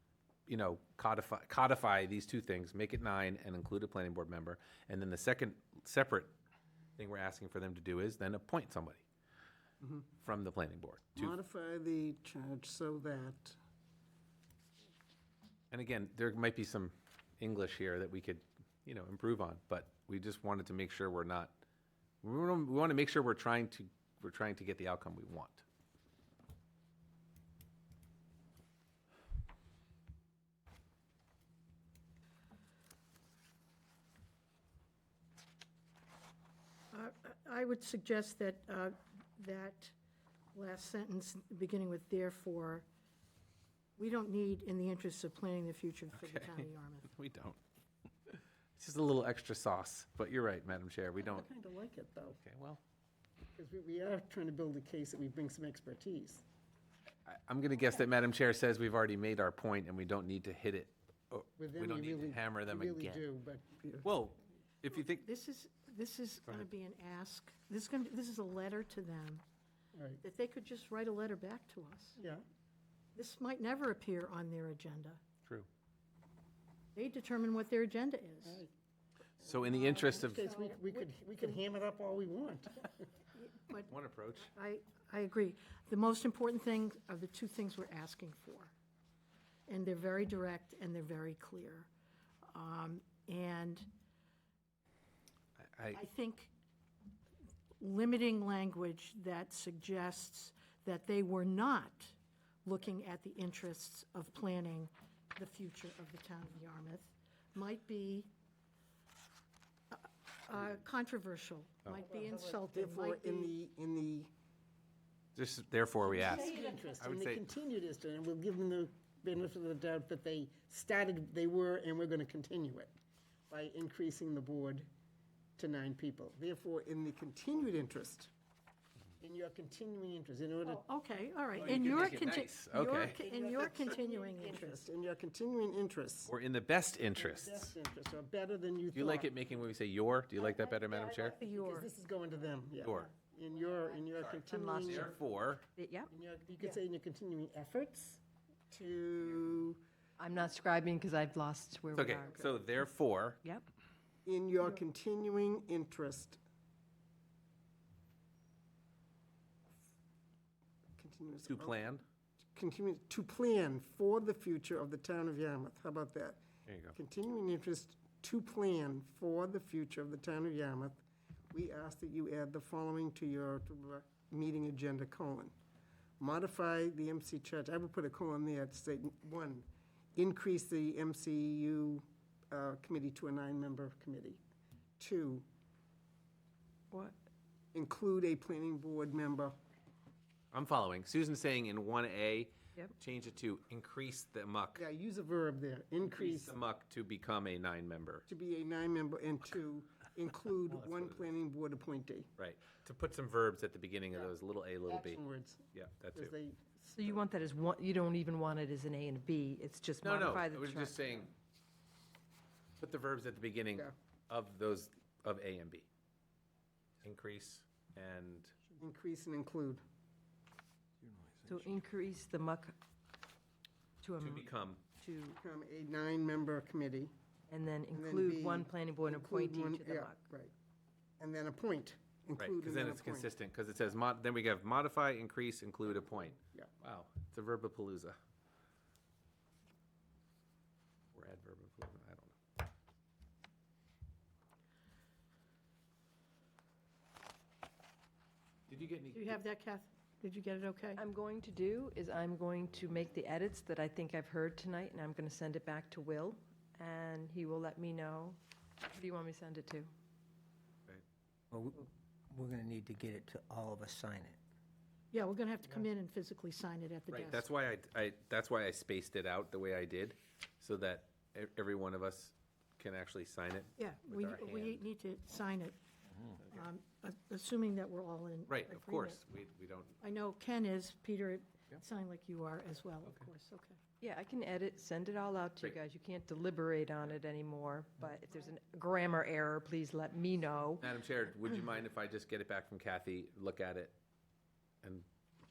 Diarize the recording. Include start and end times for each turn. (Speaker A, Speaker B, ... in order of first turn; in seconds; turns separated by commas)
Speaker A: 0.5-6.3, Speaker A: 7.0-9.0, Speaker B: 9.8-10.1, Speaker A: 10.2-11.3, Speaker B: 11.2-13.6, Speaker A: 15.7-21.6, Speaker A: 22.2-25.6, Speaker C: 36.9-39.9, Speaker C: 40.5-42.9, Speaker C: 44.0-47.1, Speaker A: 46.2-47.6, Speaker A: 48.3-51.4, Speaker B: 51.2-52.4, Speaker A: 52.4-52.8, Speaker B: 53.6-56.4, Speaker A: 57.3-63.2, Speaker B: 61.6-64.1, Speaker A: 64.0-65.2, Speaker C: 64.9-69.4, Speaker B: 69.9-70.2, Speaker C: 70.2-72.2, Speaker B: 72.2-72.4, Speaker C: 73.1-75.2, Speaker C: 76.9-78.6, Speaker B: 78.4-78.7, Speaker A: 79.4-80.5, Speaker B: 79.6-83.0, Speaker C: 79.7-81.0, Speaker C: 83.3-88.7, Speaker A: 83.9-84.5, Speaker C: 89.7-91.9, Speaker C: 92.5-93.9, Speaker A: 95.7-96.0, Speaker C: 95.9-96.5, Speaker C: 97.8-108.3, Speaker C: 109.9-113.5, Speaker B: 112.0-114.3, Speaker A: 115.3-117.4, Speaker B: 116.0-122.9, Speaker B: 123.5-124.9, Speaker B: 125.6-128.3, Speaker B: 129.2-130.8, Speaker C: 130.6-134.8, Speaker A: 131.6-133.2, Speaker B: 131.7-132.1, Speaker B: 133.0-136.3, Speaker A: 136.3-137.7, Speaker B: 137.1-139.3, Speaker A: 138.9-141.3, Speaker B: 140.8-145.1, Speaker C: 141.3-141.9, Speaker A: 142.8-143.1, Speaker D: 144.5-145.1, Speaker A: 144.8-145.6, Speaker D: 145.8-146.1, Speaker B: 146.1-149.8, Speaker D: 150.2-152.6, Speaker A: 151.9-153.4, Speaker B: 154.2-156.4, Speaker B: 161.0-161.8, Speaker A: 161.5-162.0, Speaker B: 162.5-166.4, Speaker A: 166.7-166.9, Speaker B: 166.9-171.0, Speaker B: 171.5-175.5, Speaker B: 176.2-184.4, Speaker B: 185.0-185.4, Speaker B: 187.7-189.6, Speaker A: 190.5-194.8, Speaker B: 194.8-196.6, Speaker A: 196.0-198.2, Speaker B: 198.3-202.3, Speaker A: 200.9-201.1, Speaker A: 202.4-205.2, Speaker B: 204.8-207.2, Speaker A: 205.7-206.3, Speaker D: 207.0-211.2, Speaker A: 210.0-211.3, Speaker A: 212.8-215.9, Speaker A: 217.0-218.5, Speaker B: 218.8-219.8, Speaker E: 221.0-221.7, Speaker D: 221.4-222.7, Speaker D: 224.0-225.4, Speaker A: 224.2-224.8, Speaker B: 225.3-227.1, Speaker D: 227.5-230.2, Speaker B: 227.9-230.5, Speaker B: 231.2-233.3, Speaker A: 232.4-238.2, Speaker B: 236.4-236.7, Speaker A: 241.1-242.4, Speaker A: 248.7-249.4, Speaker C: 249.1-251.0, Speaker D: 250.9-259.9, Speaker E: 261.5-264.4, Speaker C: 265.1-267.4, Speaker A: 267.1-274.8, Speaker C: 273.8-275.8, Speaker C: 276.3-279.2, Speaker A: 278.5-280.0, Speaker C: 280.0-283.8, Speaker D: 284.0-290.8, Speaker A: 290.8-294.0, Speaker A: 294.8-295.1